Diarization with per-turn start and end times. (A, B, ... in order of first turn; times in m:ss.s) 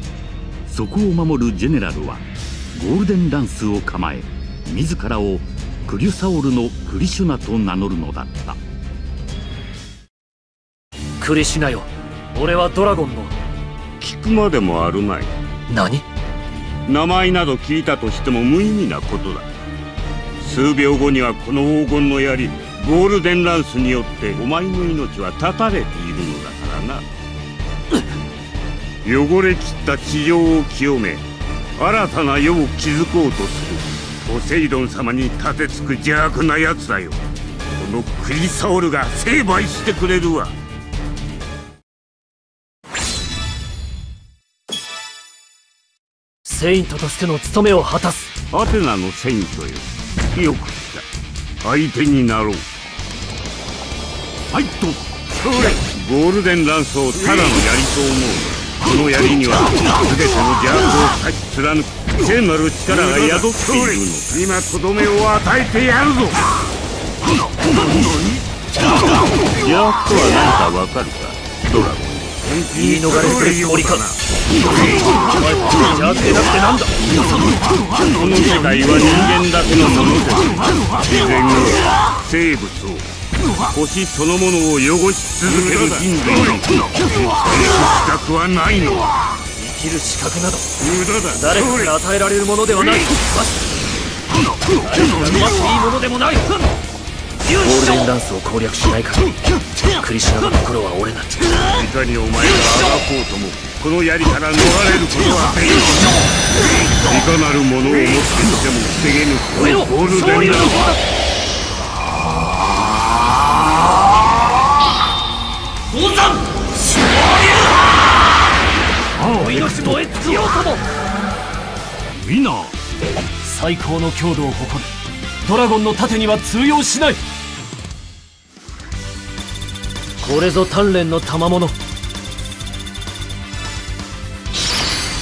0:00.7-0:08.6 A
0:11.2-0:13.3 B
0:14.0-0:15.3 C
0:15.7-0:16.0 B
0:16.8-0:19.5 C
0:20.4-0:27.0 C
0:29.0-0:31.2 C
0:31.8-0:37.2 C
0:37.7-0:40.5 C
0:46.4-0:48.3 B
0:48.5-0:51.0 C
0:51.6-0:52.6 C
0:55.4-1:06.5 C
1:09.5-1:14.2 C
1:12.7-1:14.1 B
1:15.1-1:17.0 B
1:17.9-1:23.0 C
1:23.7-1:29.3 C
1:29.6-1:30.7 B
1:30.8-1:31.5 C
1:31.4-1:33.7 B
1:34.8-1:36.7 B
1:37.4-1:39.4 B
1:40.0-1:41.5 B
1:41.7-1:45.9 C
1:47.1-1:50.9 C
1:49.5-1:51.0 B
1:55.9-1:56.4 B
1:59.2-1:59.8 A
1:59.3-2:00.8 B
2:02.2-2:02.7 A
2:03.4-2:04.9 B
2:05.4-2:07.2 B
2:10.2-2:11.7 B